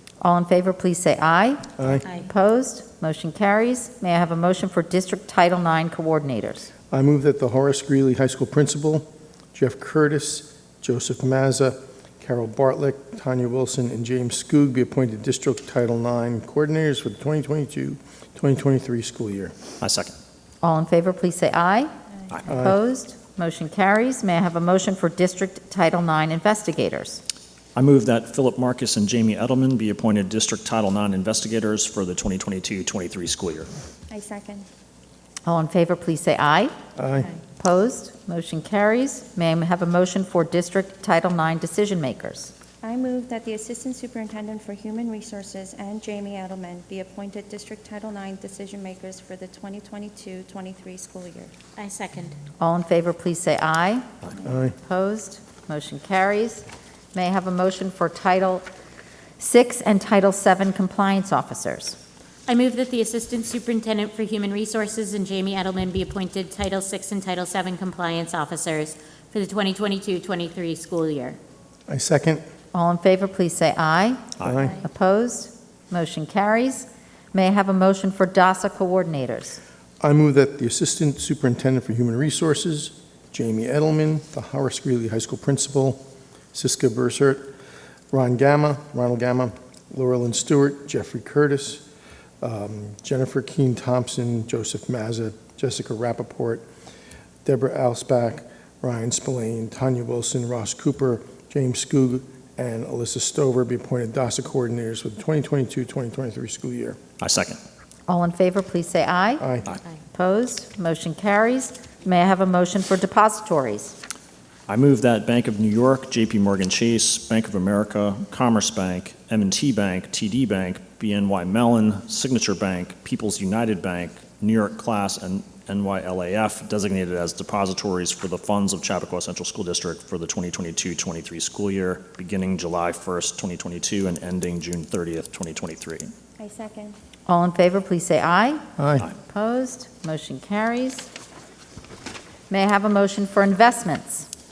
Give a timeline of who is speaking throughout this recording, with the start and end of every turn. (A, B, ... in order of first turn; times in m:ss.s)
0:00.2-0:06.7 A
0:06.9-0:19.6 B
0:19.8-0:20.1 C
0:20.6-0:21.9 A
0:22.5-0:22.8 B
0:22.5-0:27.2 A
0:27.8-0:33.7 C
0:34.1-0:34.6 D
0:35.4-0:36.7 A
0:37.0-0:37.3 B
0:37.6-0:42.5 A
0:42.8-0:51.5 D
0:51.8-0:52.4 E
0:52.6-0:54.0 A
0:54.4-0:54.7 B
0:54.8-0:58.6 A
0:59.4-1:02.0 A
1:02.5-1:11.4 E
1:11.9-1:12.4 B
1:12.7-1:19.6 A
1:14.4-1:14.7 C
1:14.4-1:14.8 B
1:20.0-1:26.0 B
1:26.5-1:27.5 B
1:28.1-1:31.8 B
1:32.4-1:36.6 B
1:37.4-1:47.0 B
1:47.2-1:47.6 C
1:48.1-1:49.4 A
1:49.4-1:49.7 B
1:50.1-1:54.0 A
1:54.7-2:16.1 C
2:16.4-2:16.9 D
2:17.3-2:21.1 A
2:18.8-2:19.1 B
2:22.5-2:24.3 A